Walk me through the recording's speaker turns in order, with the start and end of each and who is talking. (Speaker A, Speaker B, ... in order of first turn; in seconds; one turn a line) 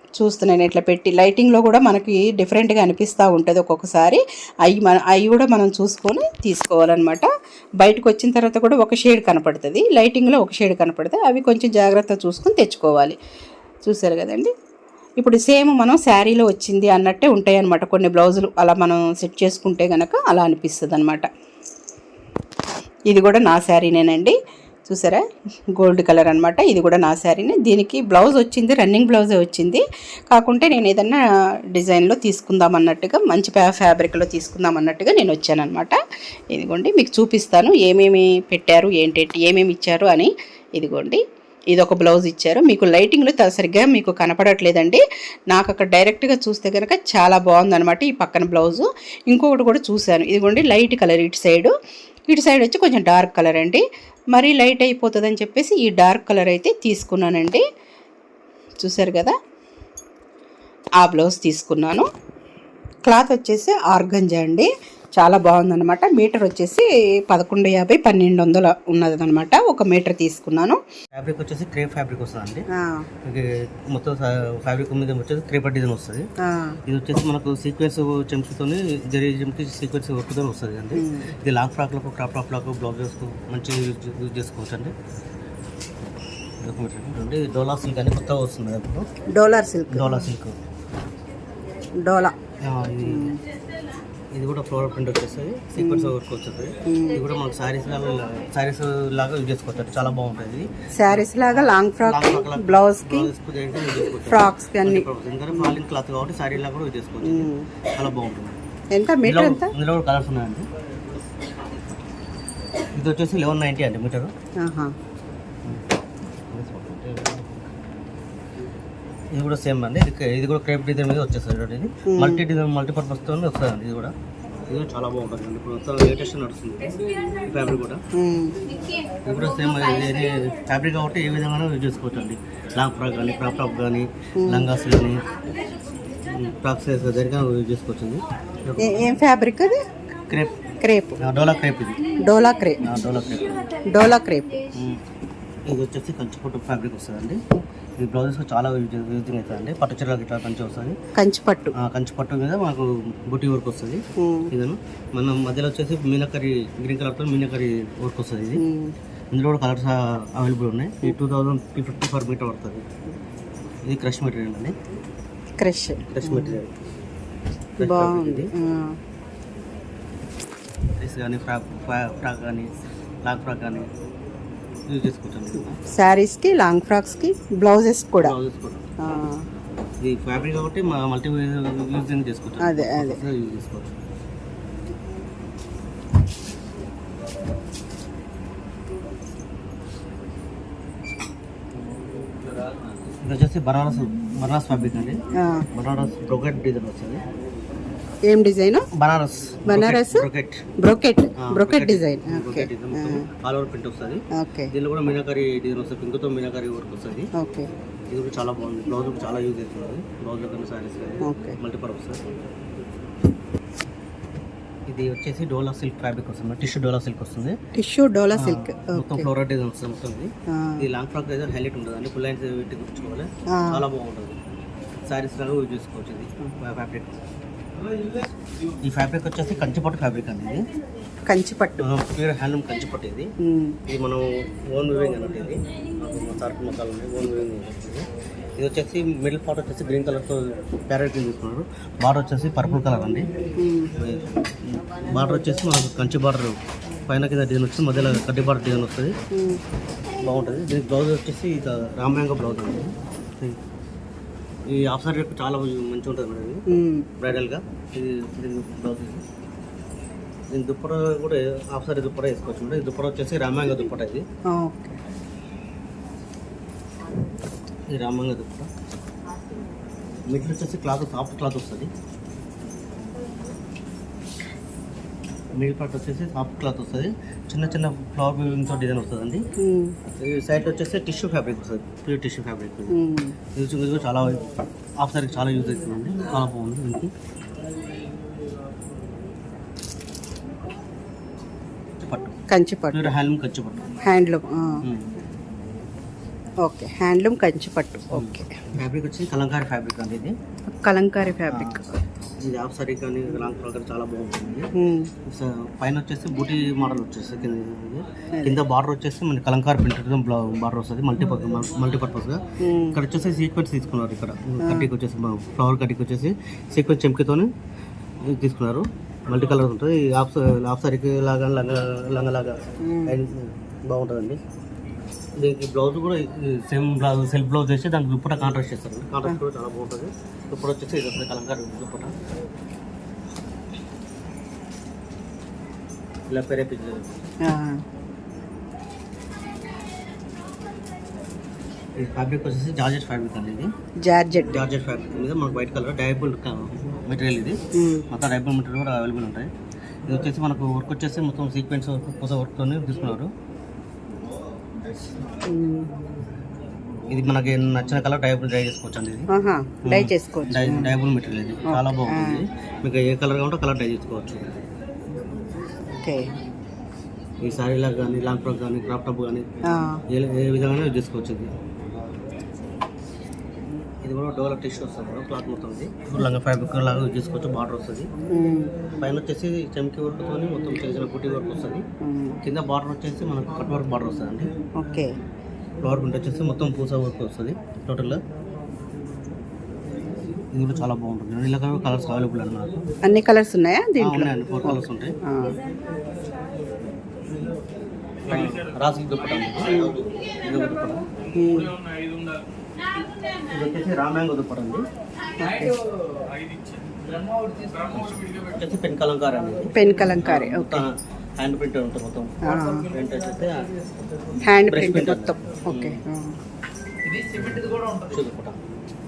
Speaker A: 0.2-7.2
Speaker A: 7.8-13.2
Speaker A: 13.8-14.5
Speaker A: 15.2-21.3
Speaker A: 23.1-24.4
Speaker A: 24.9-25.2
Speaker A: 25.8-31.2
Speaker A: 31.7-36.0
Speaker A: 36.5-41.2
Speaker A: 41.7-51.7
Speaker A: 52.3-57.6
Speaker A: 58.8-59.3
Speaker A: 61.0-62.1
Speaker A: 63.1-70.8
Speaker B: 71.1-72.6
Speaker A: 72.7-73.1
Speaker B: 73.2-76.2
Speaker A: 76.4-76.8
Speaker B: 76.8-84.9
Speaker A: 81.0-81.3
Speaker B: 86.6-89.0
Speaker A: 89.3-90.2
Speaker B: 89.9-90.5
Speaker A: 92.0-92.3
Speaker B: 92.6-93.3
Speaker A: 93.0-93.4
Speaker B: 94.3-108.6
Speaker A: 95.8-96.1
Speaker A: 96.9-97.2
Speaker A: 100.9-103.3
Speaker A: 104.2-105.8
Speaker A: 107.2-107.7
Speaker A: 108.9-109.7
Speaker B: 109.2-110.7
Speaker B: 113.0-114.3
Speaker A: 114.6-114.9
Speaker B: 116.5-117.5
Speaker B: 119.3-124.1
Speaker A: 122.1-122.4
Speaker B: 124.7-128.0
Speaker A: 128.2-128.5
Speaker B: 129.2-135.2
Speaker A: 134.4-134.7
Speaker B: 136.2-139.1
Speaker A: 138.8-139.8
Speaker B: 140.3-140.5
Speaker A: 140.8-141.2
Speaker B: 141.2-142.0
Speaker A: 142.2-142.8
Speaker B: 142.8-143.6
Speaker A: 143.9-144.5
Speaker B: 145.7-147.4
Speaker B: 148.0-150.9
Speaker A: 151.2-151.7
Speaker B: 151.8-158.6
Speaker A: 154.2-154.5
Speaker A: 158.6-158.9
Speaker B: 159.3-162.8
Speaker B: 163.9-164.7
Speaker A: 165.6-166.6
Speaker B: 166.1-166.7
Speaker B: 167.8-168.5
Speaker A: 167.8-169.0
Speaker B: 171.0-172.7
Speaker B: 173.2-173.9
Speaker B: 174.9-175.7
Speaker A: 175.7-178.3
Speaker B: 178.2-178.8
Speaker A: 179.0-179.4
Speaker B: 180.0-183.9
Speaker A: 182.6-183.2
Speaker B: 193.2-195.2
Speaker A: 195.4-195.7
Speaker B: 195.7-197.2
Speaker A: 198.3-198.9
Speaker B: 198.9-200.6
Speaker A: 199.7-200.3
Speaker A: 200.8-203.3
Speaker B: 201.4-207.3
Speaker A: 204.4-204.7
Speaker A: 207.4-207.7
Speaker B: 208.1-212.2
Speaker A: 211.2-211.6
Speaker B: 214.9-217.6
Speaker A: 217.7-219.3
Speaker B: 218.3-224.4
Speaker A: 220.5-220.9
Speaker A: 223.5-223.8
Speaker B: 225.1-227.2
Speaker B: 228.8-230.7
Speaker A: 231.3-231.8
Speaker B: 231.8-233.3
Speaker A: 233.4-233.8
Speaker B: 233.9-238.0
Speaker B: 238.6-243.3
Speaker A: 243.6-243.9
Speaker B: 244.0-246.6
Speaker B: 247.1-249.1
Speaker A: 249.3-249.6
Speaker B: 250.2-253.6
Speaker B: 254.7-256.6
Speaker A: 256.7-257.1
Speaker B: 257.2-259.2
Speaker B: 260.5-264.2
Speaker A: 264.5-265.0
Speaker B: 267.9-268.7
Speaker B: 270.3-271.9
Speaker B: 275.6-279.4
Speaker A: 279.6-279.9
Speaker B: 280.2-282.9
Speaker A: 282.9-283.4
Speaker B: 283.5-284.4
Speaker B: 285.0-287.1
Speaker B: 292.0-292.3
Speaker A: 292.5-293.1
Speaker B: 292.9-293.9
Speaker A: 294.0-294.8
Speaker B: 294.8-295.1
Speaker A: 296.6-298.6
Speaker B: 298.1-300.3
Speaker A: 300.7-301.9
Speaker B: 301.5-301.8
Speaker B: 302.4-304.7
Speaker A: 304.8-305.1
Speaker B: 305.2-317.5
Speaker A: 312.6-313.0
Speaker A: 314.6-314.9
Speaker B: 318.2-322.5
Speaker A: 322.8-323.2
Speaker B: 323.1-324.4
Speaker B: 325.4-332.1
Speaker B: 336.3-337.3
Speaker A: 337.4-337.8
Speaker B: 342.0-343.7
Speaker A: 344.0-344.6
Speaker B: 344.5-347.6
Speaker A: 347.7-348.1
Speaker B: 348.1-349.5
Speaker B: 350.1-353.3
Speaker A: 355.5-356.0
Speaker B: 357.1-359.3
Speaker A: 359.3-360.9
Speaker B: 359.8-364.5
Speaker A: 361.7-362.4
Speaker B: 367.4-369.4
Speaker A: 369.7-370.0
Speaker B: 370.1-371.5
Speaker B: 374.0-378.1
Speaker A: 378.3-378.7
Speaker B: 379.0-381.8
Speaker A: 382.0-382.4
Speaker B: 382.4-384.5
Speaker A: 384.8-385.1
Speaker B: 385.8-388.2
Speaker B: 390.5-392.8
Speaker A: 393.1-395.6
Speaker B: 394.0-395.1
Speaker B: 398.3-401.0
Speaker A: 401.4-401.8
Speaker B: 403.5-404.8
Speaker A: 405.4-405.8
Speaker B: 407.8-412.4
Speaker A: 409.7-410.8
Speaker A: 412.4-412.9
Speaker B: 412.9-413.7
Speaker A: 414.5-416.3
Speaker B: 414.7-416.0
Speaker B: 417.3-418.6